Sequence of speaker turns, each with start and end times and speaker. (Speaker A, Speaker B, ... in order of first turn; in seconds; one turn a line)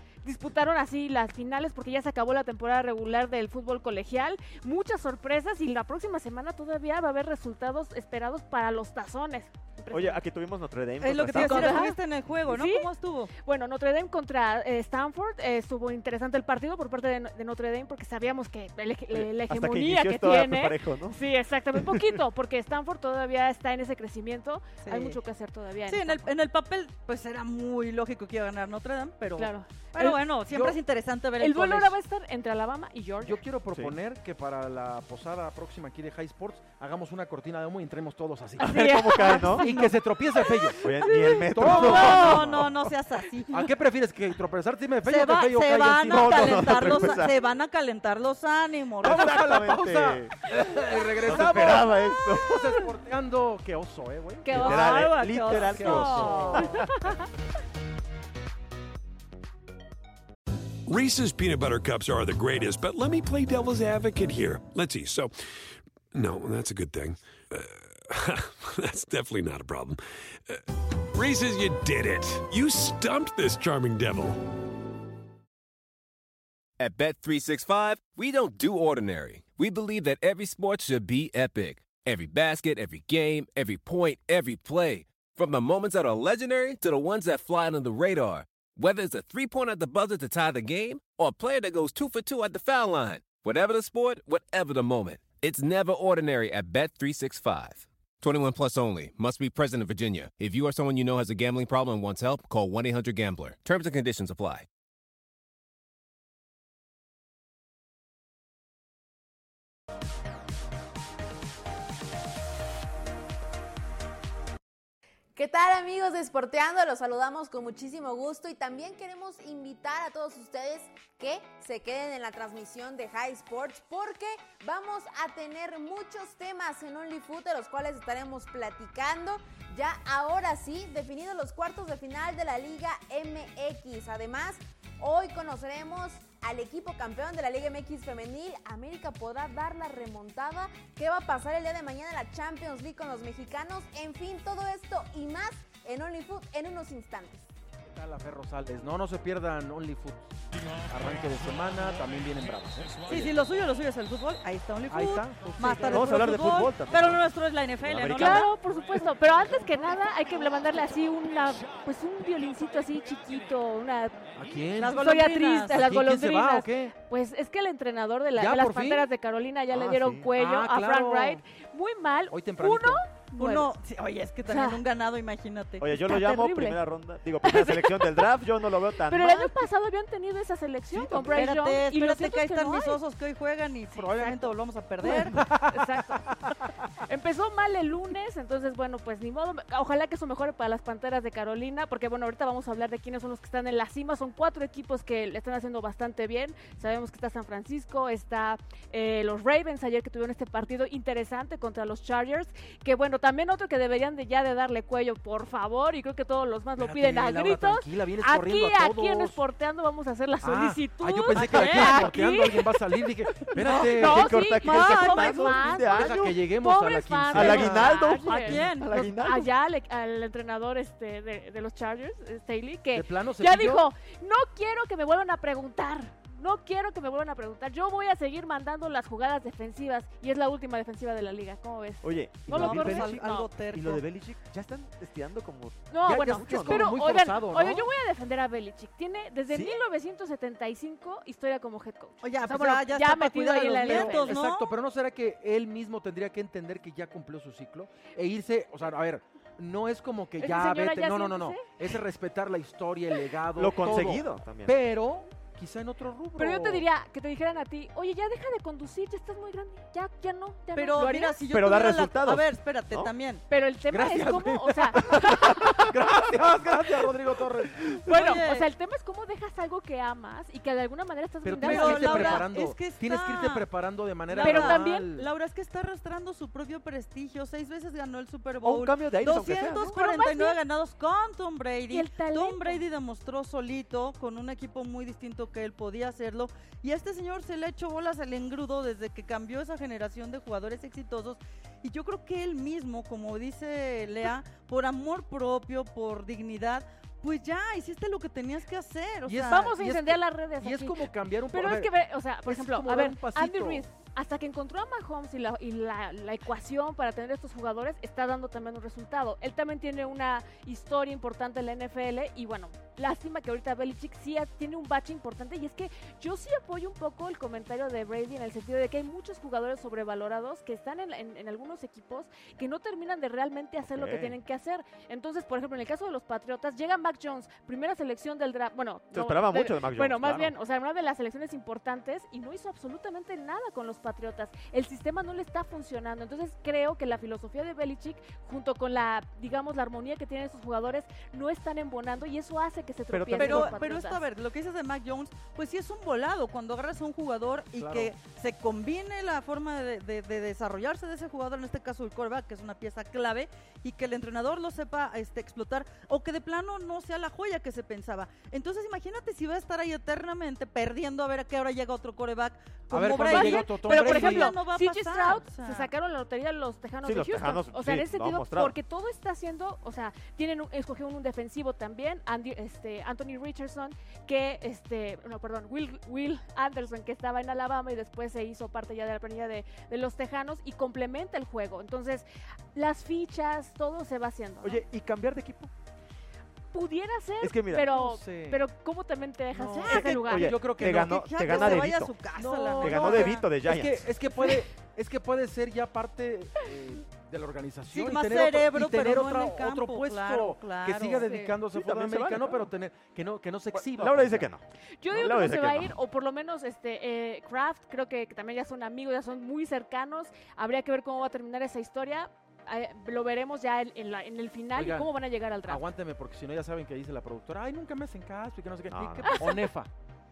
Speaker A: 0.2-10.2
Speaker B: 9.9-11.9
Speaker C: 11.0-13.3
Speaker A: 11.3-26.3
Speaker B: 19.1-21.2
Speaker B: 21.7-22.2
Speaker C: 24.8-25.2
Speaker C: 25.9-31.9
Speaker A: 29.4-30.2
Speaker D: 30.5-30.8
Speaker A: 31.4-33.4
Speaker D: 33.2-40.9
Speaker B: 38.6-39.7
Speaker A: 38.6-39.7
Speaker C: 39.5-40.0
Speaker B: 40.8-42.9
Speaker C: 41.4-43.7
Speaker D: 41.5-42.6
Speaker D: 43.5-47.2
Speaker C: 45.0-49.4
Speaker B: 46.0-47.4
Speaker B: 49.0-50.5
Speaker D: 49.0-54.9
Speaker B: 51.2-52.8
Speaker A: 54.4-57.2
Speaker B: 54.5-57.0
Speaker C: 55.4-56.6
Speaker D: 55.6-56.6
Speaker E: 60.9-65.3
Speaker E: 66.1-74.4
Speaker F: 76.8-104.7
Speaker G: 115.3-147.5
Speaker D: 147.9-150.3
Speaker D: 150.9-153.3
Speaker C: 153.1-158.5
Speaker D: 154.9-156.4
Speaker B: 155.8-157.2
Speaker B: 157.8-158.5
Speaker A: 158.2-164.2
Speaker D: 164.3-165.2
Speaker C: 164.8-165.8
Speaker A: 164.9-173.7
Speaker D: 165.7-166.9
Speaker D: 168.4-169.1
Speaker B: 169.7-170.3
Speaker D: 170.4-171.4
Speaker D: 172.3-173.0
Speaker C: 173.3-175.9
Speaker A: 174.5-174.8
Speaker B: 175.8-179.6
Speaker A: 175.9-176.8
Speaker A: 177.4-178.3
Speaker A: 179.1-183.0
Speaker C: 181.1-185.4
Speaker A: 183.9-184.5
Speaker D: 185.0-186.5
Speaker A: 185.1-212.8
Speaker D: 206.8-209.4
Speaker D: 210.4-214.3
Speaker B: 213.5-216.4
Speaker A: 213.9-233.5
Speaker C: 214.6-215.6
Speaker D: 215.9-217.9
Speaker B: 217.3-219.5
Speaker C: 218.1-219.1
Speaker D: 222.9-223.9
Speaker B: 232.0-236.9
Speaker C: 232.5-234.0
Speaker A: 235.9-244.3
Speaker D: 236.1-237.9
Speaker B: 239.5-239.8
Speaker C: 242.2-244.7
Speaker D: 243.8-256.9
Speaker A: 250.4-251.7
Speaker B: 253.6-254.8
Speaker A: 256.4-261.4
Speaker C: 260.7-263.4
Speaker B: 261.5-263.1
Speaker A: 263.5-265.7
Speaker D: 263.9-268.0
Speaker B: 265.9-267.1
Speaker C: 268.1-268.7
Speaker A: 268.1-272.5
Speaker D: 271.4-275.3
Speaker C: 271.6-273.6
Speaker C: 274.3-299.7
Speaker A: 274.4-275.1
Speaker B: 278.6-279.9
Speaker A: 279.8-280.6
Speaker A: 281.9-282.9
Speaker D: 299.2-301.9
Speaker A: 299.5-344.2
Speaker D: 302.4-303.9
Speaker B: 323.8-324.4
Speaker B: 329.1-330.5
Speaker B: 343.1-343.9
Speaker C: 343.4-365.9
Speaker D: 347.8-348.1
Speaker D: 362.9-364.6
Speaker A: 363.1-384.8
Speaker B: 367.0-368.8
Speaker B: 384.6-385.7
Speaker A: 386.7-390.5
Speaker B: 387.4-387.9
Speaker D: 387.9-388.6
Speaker D: 389.5-404.5
Speaker B: 389.8-392.1
Speaker C: 390.9-393.4
Speaker B: 392.8-394.1
Speaker C: 397.9-401.3
Speaker A: 401.2-401.6
Speaker B: 401.7-402.7
Speaker B: 403.7-405.9
Speaker A: 405.0-415.8
Speaker D: 414.8-415.1
Speaker D: 415.6-419.9
Speaker B: 418.9-419.5
Speaker A: 419.2-419.5